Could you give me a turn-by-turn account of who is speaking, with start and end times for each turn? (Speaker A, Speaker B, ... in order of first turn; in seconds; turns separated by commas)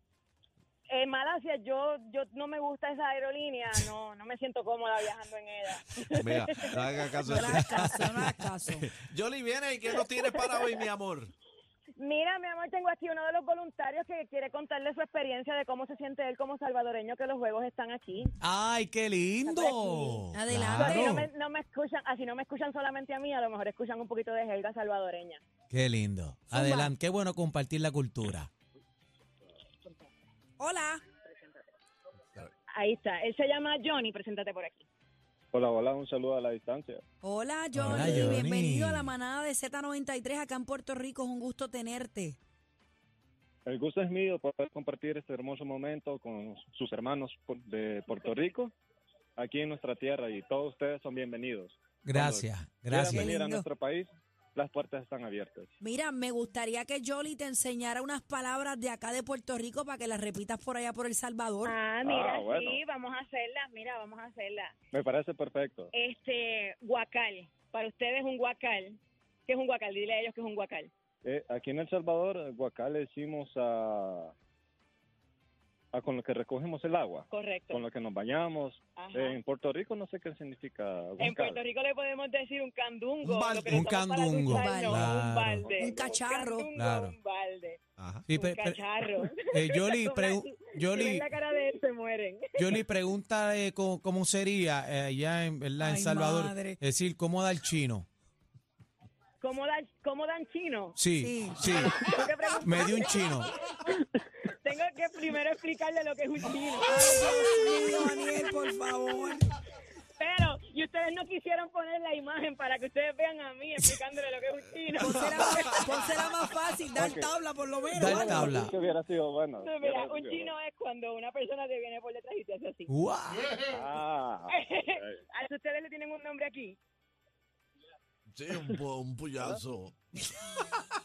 Speaker A: 0.9-7.5, Speaker B: 6.1-7.6, Speaker C: 7.2-8.9, Speaker B: 8.8-11.3, Speaker A: 12.0-18.3, Speaker D: 18.4-21.3, Speaker A: 19.4-20.2, Speaker C: 20.3-21.1, Speaker A: 20.8-25.4, Speaker D: 25.7-28.5, Speaker C: 26.5-26.9, Speaker C: 30.6-31.0, Speaker A: 31.2-31.6, Speaker A: 32.7-34.9, Speaker E: 35.5-37.0, Speaker C: 37.2-42.4, Speaker D: 37.7-39.1, Speaker E: 43.6-48.7, Speaker E: 49.4-55.7, Speaker D: 52.0-53.2, Speaker C: 53.1-53.7, Speaker C: 55.8-61.8, Speaker A: 61.6-64.8, Speaker E: 62.0-62.8, Speaker E: 64.9-65.9, Speaker A: 65.9-70.9, Speaker E: 71.2-74.3, Speaker E: 75.9-81.6, Speaker A: 77.3-77.8, Speaker A: 79.0-79.4, Speaker A: 81.2-87.8, Speaker B: 83.2-83.8, Speaker D: 83.7-85.7, Speaker C: 84.5-85.0, Speaker C: 85.8-86.7, Speaker D: 86.7-87.1, Speaker B: 88.0-88.2, Speaker D: 88.3-88.8, Speaker A: 88.3-92.7, Speaker D: 89.5-91.3, Speaker D: 92.6-98.0, Speaker C: 95.8-96.8, Speaker A: 99.4-101.0, Speaker D: 101.0-102.1, Speaker C: 101.2-101.7, Speaker A: 101.8-107.2, Speaker D: 102.6-103.5, Speaker C: 106.9-109.5, Speaker A: 107.8-108.1, Speaker A: 110.2-116.1, Speaker C: 115.0-118.6, Speaker E: 116.9-117.3, Speaker D: 117.9-118.7, Speaker E: 118.0-120.5, Speaker A: 118.6-119.0, Speaker A: 119.6-122.9, Speaker D: 122.9-123.6, Speaker E: 123.6-125.1, Speaker A: 124.5-126.8, Speaker B: 128.3-130.7